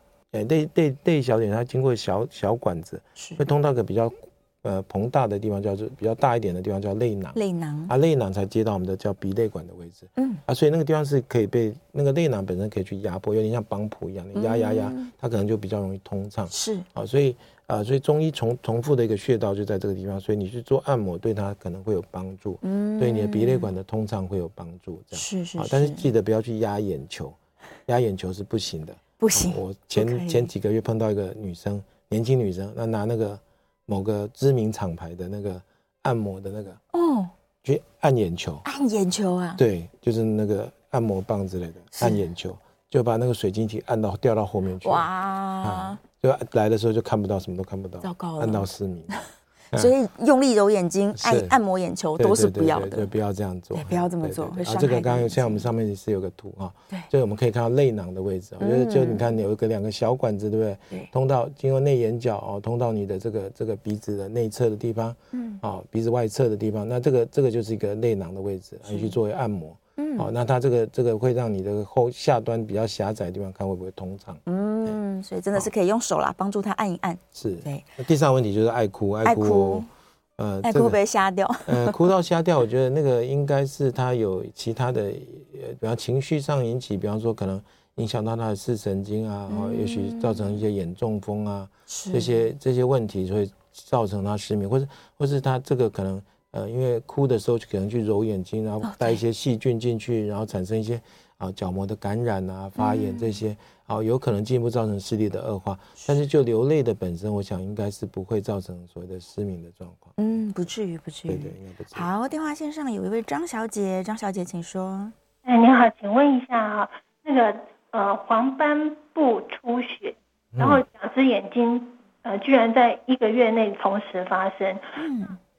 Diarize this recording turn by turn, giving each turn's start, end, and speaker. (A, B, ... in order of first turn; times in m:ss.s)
0:00.3-0:36.8 A
0:03.2-0:03.4 B
0:07.3-0:07.9 B
0:10.2-0:10.4 B
0:14.3-0:15.1 B
0:16.5-0:16.8 B
0:22.6-0:23.7 B
0:25.1-0:26.0 B
0:29.2-0:30.5 B
0:36.9-0:37.3 B
0:37.6-0:38.6 A
0:38.6-0:39.6 B
0:39.6-0:45.1 A
0:41.9-0:42.2 B
0:44.8-0:46.0 B
0:45.6-0:49.2 A
0:48.0-0:53.1 B
0:51.1-0:51.6 A
0:52.2-1:15.0 A
0:53.7-0:55.7 B
0:58.6-0:59.2 B
1:05.3-1:05.6 B
1:08.8-1:09.2 B
1:10.0-1:10.3 B
1:14.4-1:18.0 B
1:17.3-1:19.8 A
1:19.2-1:19.9 B
1:20.4-1:21.0 A
1:20.6-1:22.0 B
1:21.6-1:50.2 A
1:29.5-1:30.6 B
1:31.9-1:32.3 B
1:38.8-1:39.2 B
1:42.8-1:43.4 B
1:50.2-1:55.1 B
1:51.3-1:52.1 A
1:55.4-2:04.8 C
2:00.5-2:00.8 A
2:05.0-2:05.4 B